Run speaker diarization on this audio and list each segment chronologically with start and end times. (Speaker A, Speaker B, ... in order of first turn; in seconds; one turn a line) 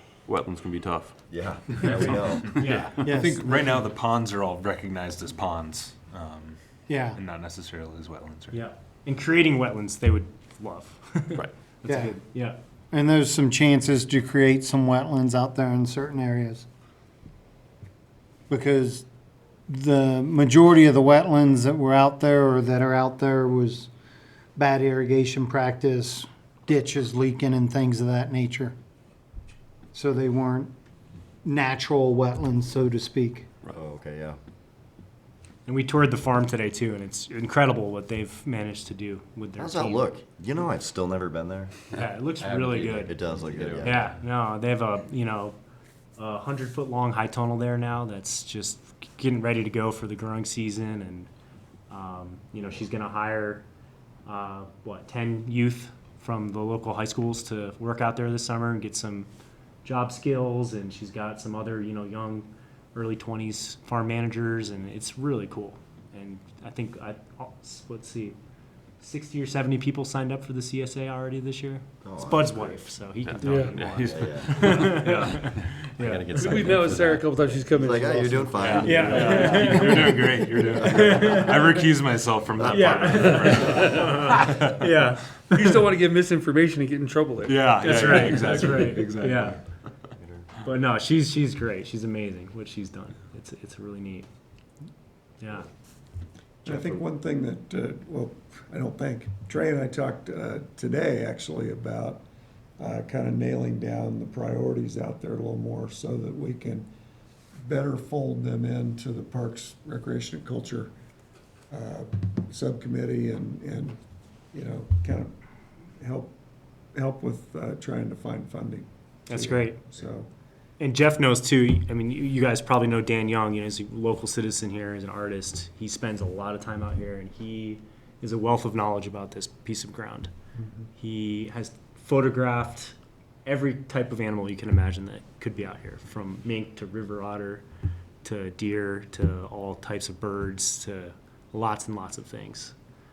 Speaker A: 0.3-1.1
Speaker B: 1.3-2.6
Speaker C: 2.3-6.6
Speaker D: 2.6-3.0
Speaker E: 3.0-3.6
Speaker E: 6.9-7.2
Speaker C: 7.1-8.6
Speaker D: 8.5-12.6
Speaker E: 11.8-12.1
Speaker E: 12.9-16.6
Speaker E: 18.5-19.0
Speaker E: 19.7-23.9
Speaker E: 24.6-28.7
Speaker E: 29.9-30.7
Speaker E: 31.4-33.5
Speaker B: 33.7-34.4
Speaker D: 35.6-40.1
Speaker B: 39.6-41.8
Speaker D: 42.0-43.1
Speaker B: 42.4-44.1
Speaker D: 43.8-45.5
Speaker D: 46.2-51.3
Speaker D: 51.9-53.6
Speaker D: 54.2-59.3
Speaker D: 59.8-68.4
Speaker D: 69.0-76.5
Speaker B: 72.0-72.8
Speaker A: 73.3-75.0
Speaker F: 73.3-74.2
Speaker B: 74.0-81.3
Speaker F: 76.4-81.5
Speaker C: 78.5-85.9
Speaker D: 78.9-81.5
Speaker A: 79.1-79.6
Speaker B: 82.6-83.8
Speaker D: 82.7-85.8
Speaker F: 82.9-84.8
Speaker F: 85.5-89.6
Speaker C: 87.4-89.6
Speaker D: 87.8-89.5
Speaker B: 90.2-90.5
Speaker D: 90.6-94.3
Speaker D: 95.4-95.7
Speaker G: 96.6-102.2
Speaker G: 102.8-106.9
Speaker G: 107.6-110.9
Speaker G: 111.7-114.0
Speaker G: 114.5-115.3
Speaker G: 116.0-116.3
Speaker G: 116.9-120.3
Speaker D: 119.3-119.8
Speaker D: 120.8-130.3
Speaker D: 130.9-132.9
Speaker D: 133.4-137.6
Speaker D: 138.2-142.7